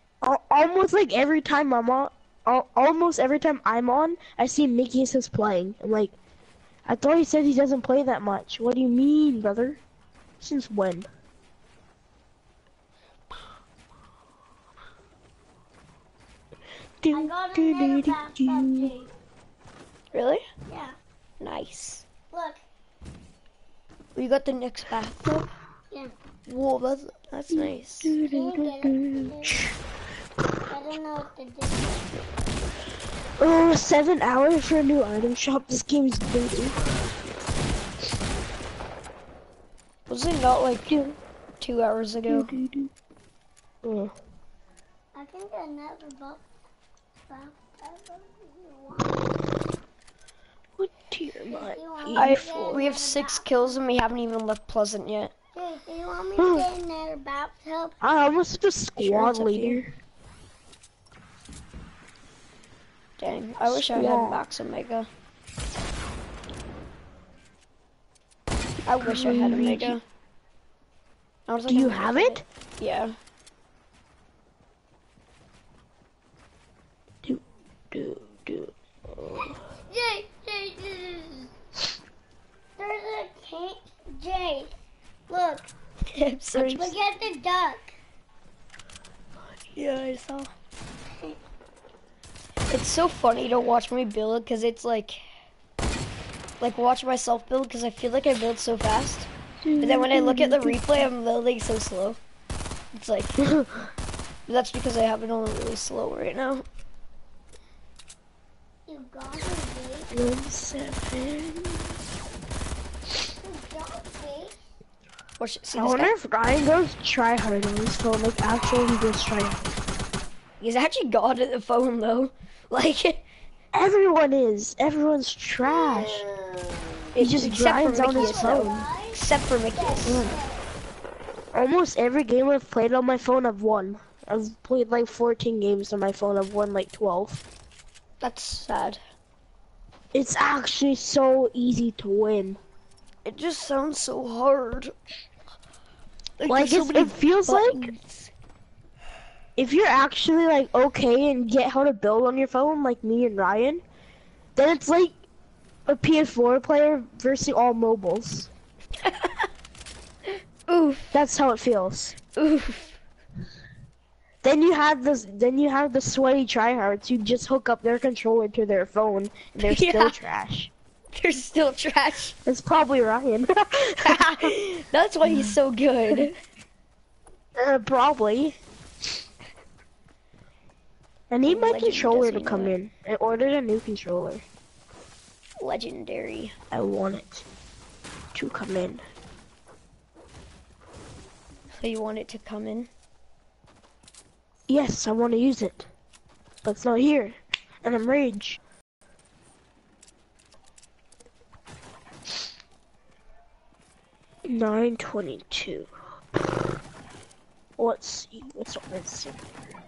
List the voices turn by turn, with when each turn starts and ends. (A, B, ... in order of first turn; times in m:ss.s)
0:00.2-0:06.2 A
0:06.9-0:09.8 A
0:10.4-0:11.1 A
0:17.0-0:18.9 A
0:17.1-0:19.1 B
0:20.1-0:20.4 C
0:20.7-0:21.0 B
0:21.4-0:22.1 C
0:22.3-0:22.6 B
0:24.2-0:25.5 C
0:26.5-0:28.2 C
0:27.5-0:29.7 A
0:28.3-0:29.6 B
0:30.7-0:32.1 B
0:33.4-0:36.8 A
0:40.1-0:41.0 C
0:40.9-0:41.2 A
0:41.6-0:42.5 C
0:42.3-0:42.9 A
0:43.8-0:44.1 A
0:45.2-0:46.4 B
0:47.3-0:49.4 B
0:50.8-0:52.9 A
0:51.5-0:53.8 B
0:52.2-0:55.3 C
0:55.5-0:58.0 B
0:56.4-0:56.7 A
0:58.0-0:59.9 A
0:59.0-0:59.8 C
1:03.2-1:05.1 C
1:03.6-1:04.4 A
1:08.9-1:10.0 C
1:09.0-1:10.0 A
1:11.5-1:13.2 C
1:11.7-1:12.4 A
1:17.2-1:19.6 A
1:19.9-1:21.5 B
1:22.8-1:24.7 B
1:25.3-1:25.7 B
1:26.1-1:26.9 C
1:26.5-1:26.9 A
1:26.8-1:27.9 B
1:29.8-1:30.5 C
1:32.7-1:35.2 C
1:36.6-1:39.3 C
1:39.6-1:41.1 A
1:39.8-1:42.2 C
1:42.9-1:43.4 C
1:43.4-1:43.9 A
1:44.5-1:46.6 C
1:48.9-1:50.1 B
1:50.1-1:52.0 A
1:53.4-1:54.7 B
1:55.4-1:56.1 C
1:55.8-1:59.6 A
2:00.6-2:03.2 C
2:03.7-2:06.3 A
2:05.6-2:07.0 B
2:07.2-2:10.3 C
2:07.2-2:08.9 A
2:08.0-2:10.7 B
2:10.0-2:10.3 A
2:11.5-2:17.4 A
2:18.2-2:19.0 C
2:20.1-2:22.6 A
2:23.3-2:25.0 C
2:26.4-2:28.3 C
2:26.5-2:27.9 A
2:29.6-2:33.8 A
2:34.6-2:35.2 A
2:35.9-2:38.5 A
2:39.0-2:39.5 C
2:40.7-2:41.2 C
2:41.1-2:42.2 A
2:42.4-2:43.0 C
2:44.4-2:50.7 A
2:49.6-2:50.2 C
2:51.1-2:52.4 C
2:52.5-2:54.5 A
2:54.0-2:56.4 C
2:55.3-2:55.6 A
2:57.6-2:58.6 A
3:01.3-3:04.4 A
3:01.5-3:02.8 C
3:05.6-3:06.5 C
3:06.7-3:07.5 A
3:08.3-3:09.0 A
3:11.8-3:12.9 C
3:14.7-3:15.9 A
3:16.6-3:18.6 A
3:24.5-3:25.9 A
3:27.8-3:29.4 A